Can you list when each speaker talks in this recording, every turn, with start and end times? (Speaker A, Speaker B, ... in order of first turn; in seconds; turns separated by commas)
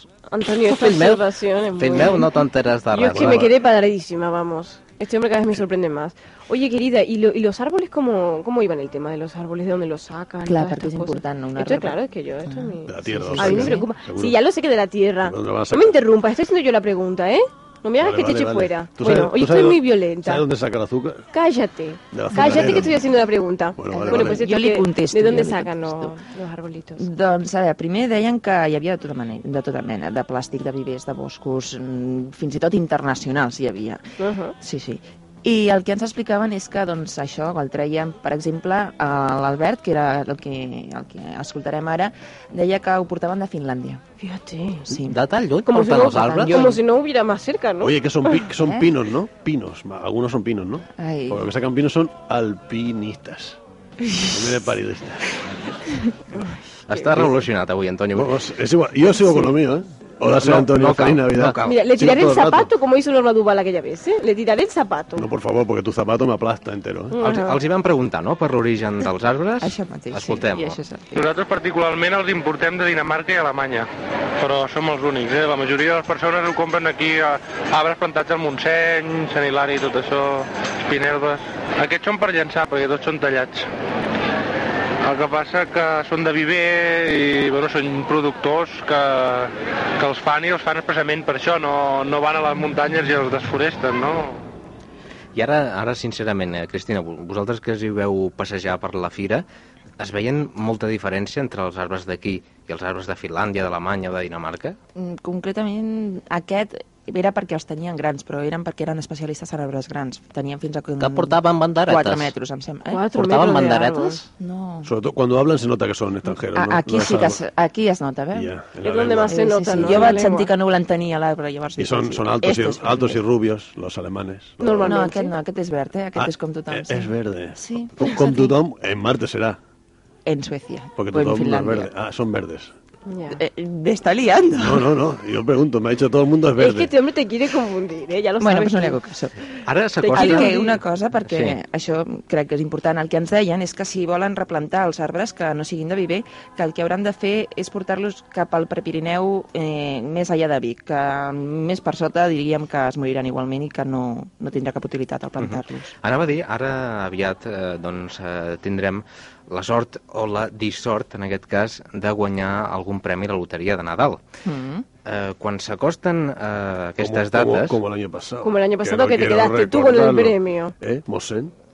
Speaker A: 0.3-20.4, Speaker B: 0.6-3.5, Speaker C: 3.1-3.5, Speaker D: 10.4-13.9, Speaker C: 12.9-14.4, Speaker C: 15.2-16.0, Speaker C: 18.0-21.3, Speaker A: 21.3-27.1, Speaker C: 22.1-23.1, Speaker D: 22.3-22.9, Speaker C: 23.8-24.5, Speaker D: 23.9-26.1, Speaker D: 27.0-34.0, Speaker A: 34.2-34.5, Speaker D: 34.6-44.0, Speaker A: 44.2-44.9, Speaker D: 44.9-45.2, Speaker B: 45.0-46.8, Speaker A: 45.7-48.5, Speaker C: 47.8-53.6, Speaker D: 51.0-51.5, Speaker D: 54.1-54.4, Speaker C: 54.3-55.3, Speaker A: 56.4-57.0, Speaker E: 56.9-58.3, Speaker C: 58.1-62.7, Speaker E: 60.3-61.9, Speaker A: 61.6-65.3, Speaker C: 65.2-67.2, Speaker A: 67.1-67.6, Speaker E: 67.2-70.8, Speaker D: 69.6-71.2, Speaker F: 71.2-83.7, Speaker F: 85.0-94.5, Speaker E: 95.3-99.5, Speaker E: 100.0-104.8, Speaker D: 105.0-113.0, Speaker B: 111.0-112.3, Speaker A: 112.9-114.2, Speaker B: 113.1-114.3, Speaker D: 114.4-114.9, Speaker C: 114.8-117.4, Speaker D: 116.5-118.5, Speaker C: 118.3-120.2, Speaker A: 118.8-120.5, Speaker D: 119.3-123.2, Speaker C: 121.8-125.1, Speaker A: 124.6-125.3, Speaker D: 124.8-128.6, Speaker C: 126.2-129.6, Speaker D: 130.3-131.9, Speaker C: 131.0-132.7, Speaker A: 133.1-133.4, Speaker D: 133.3-134.9, Speaker C: 134.6-136.9, Speaker A: 136.6-139.0, Speaker D: 138.4-139.3, Speaker E: 139.7-140.6, Speaker A: 140.0-140.8, Speaker D: 140.1-155.9, Speaker E: 141.3-141.6, Speaker E: 155.4-164.2, Speaker D: 164.4-164.9, Speaker E: 165.1-167.8, Speaker C: 167.0-171.5, Speaker A: 168.4-170.7